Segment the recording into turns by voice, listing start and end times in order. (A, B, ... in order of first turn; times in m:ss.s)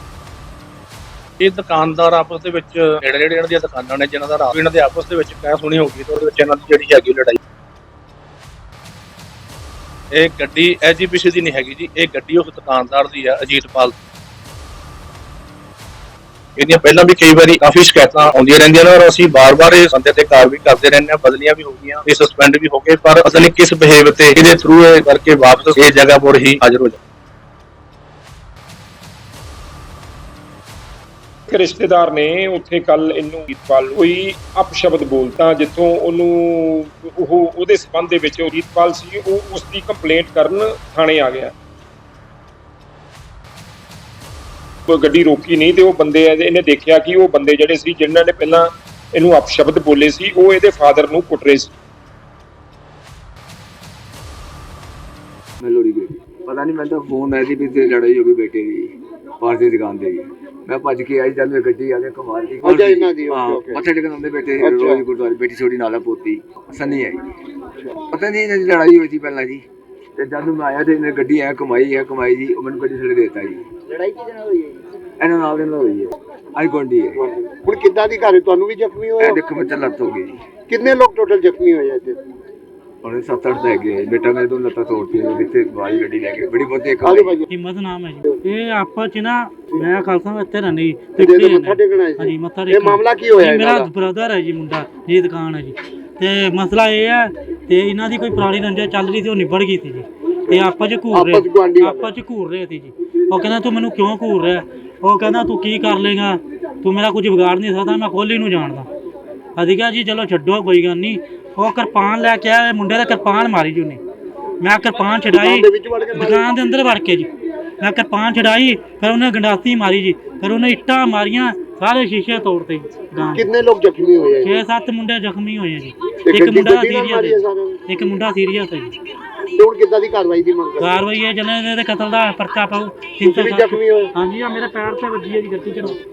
0:01.4-0:07.4 A
0:10.2-0:13.9 A
0:16.6-0:27.0 A
0:31.5-0:41.5 B
0:44.9-0:51.7 B
0:55.6-1:07.3 C
1:02.6-1:03.8 D
1:04.6-1:05.0 D
1:07.9-1:09.6 C
1:10.2-1:13.7 C
1:15.2-1:17.2 C
1:17.2-1:19.4 D
1:19.2-1:20.4 C
1:20.7-1:22.2 D
1:23.0-1:27.4 C
1:27.0-1:27.4 D
1:27.5-1:48.9 E
1:31.2-1:33.9 D
1:41.1-1:42.1 D
1:49.6-1:54.0 E
1:54.6-2:03.5 E
1:55.4-1:56.4 D
2:03.3-2:04.6 D
2:04.4-2:08.9 E
2:06.3-2:07.8 D
2:09.5-2:11.0 D
2:10.8-2:16.0 E
2:13.2-2:14.1 D